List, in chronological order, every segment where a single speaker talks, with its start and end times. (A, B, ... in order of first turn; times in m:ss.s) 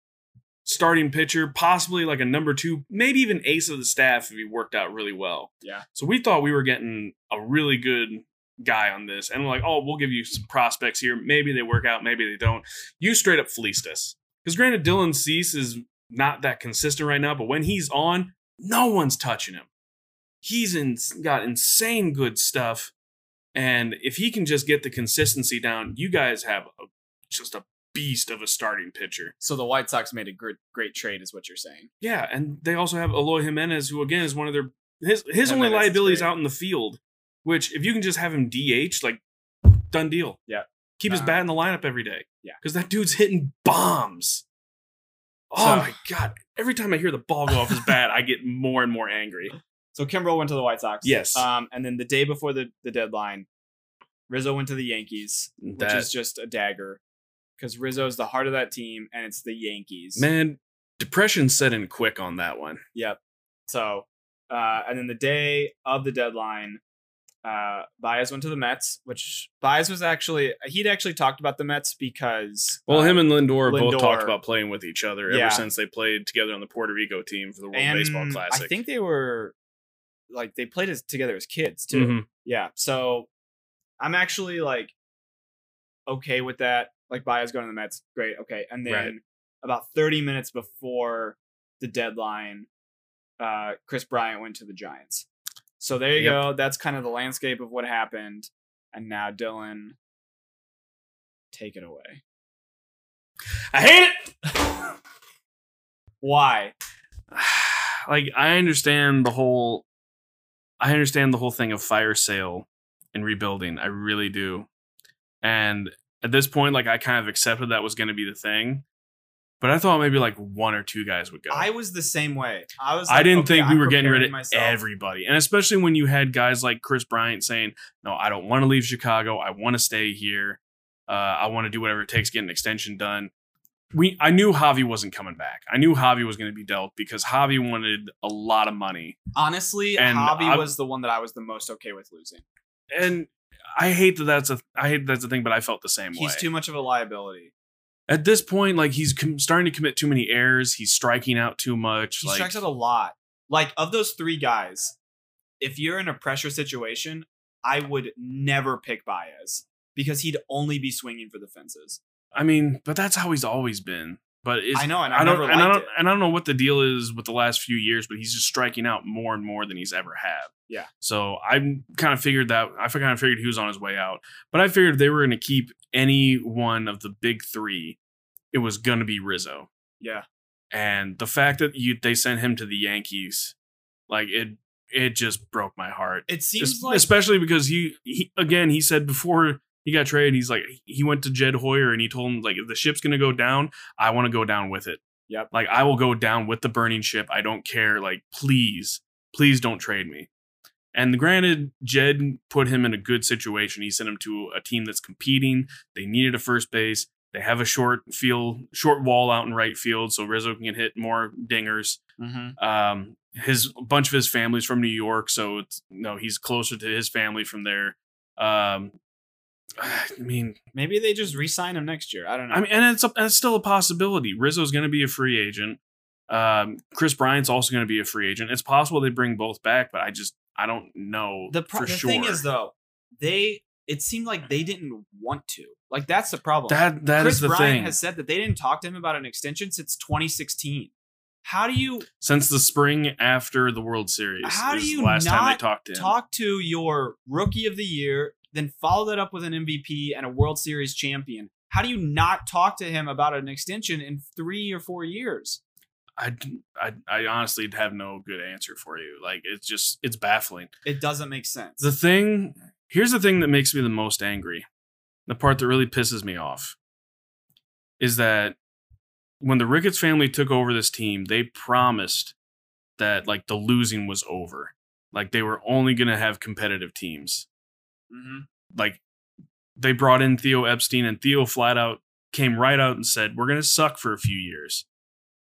0:00.6-0:19.7 A
0:20.4-0:22.9 A
0:23.6-0:29.3 A
0:29.4-0:31.9 B
0:32.0-0:40.4 A
0:35.4-0:36.3 B
0:40.5-0:41.4 B
0:41.0-0:44.4 A
0:45.5-0:49.6 A
0:45.6-0:45.9 B
0:49.9-0:53.5 B
0:51.0-0:51.4 A
0:54.3-0:57.0 B
0:55.6-0:56.1 A
0:57.6-1:00.3 B
1:00.2-1:02.8 A
1:02.9-1:06.8 B
1:07.4-1:14.4 B
1:12.9-1:18.7 A
1:15.3-1:15.6 B
1:17.7-1:19.6 B
1:20.3-1:23.3 B
1:21.9-1:22.3 A
1:24.0-1:24.9 B
1:26.1-1:32.7 B
1:28.9-1:29.1 A
1:33.4-1:35.3 B
1:35.8-1:40.0 B
1:36.2-1:36.4 A
1:41.5-1:42.2 B
1:43.7-1:44.9 A
1:46.2-1:46.7 B
1:47.3-1:49.9 A
1:50.8-1:54.7 A
1:55.4-1:58.8 A
1:59.6-2:01.7 A
2:01.5-2:04.8 B
2:03.1-2:13.3 A
2:13.9-2:19.2 A
2:19.3-2:22.4 B
2:20.0-2:20.7 A
2:22.9-2:26.4 A
2:26.1-2:27.5 B
2:28.1-2:32.6 A
2:32.2-2:35.0 B
2:35.6-2:42.0 B
2:42.3-2:58.0 A
2:44.7-2:45.9 B
2:58.5-2:59.7 A
3:00.0-3:00.2 B
3:00.7-3:03.6 A
3:04.1-3:20.3 A
3:06.3-3:07.1 B
3:20.9-3:32.0 A
3:32.2-3:32.6 B
3:32.6-3:39.0 A
3:39.8-3:40.6 A
3:40.7-3:42.7 B
3:42.5-3:52.4 A
3:51.5-4:00.9 B
3:56.7-3:58.0 A
4:01.4-4:02.1 B
4:02.2-4:06.1 A
4:04.4-4:15.6 B
4:16.2-4:20.7 A
4:20.8-4:21.8 B
4:21.8-4:24.6 A
4:25.3-4:26.8 A
4:28.0-4:28.6 A
4:29.4-4:32.3 A
4:33.0-4:37.5 A
4:38.1-4:38.5 B
4:38.7-4:39.0 A
4:39.8-4:44.9 A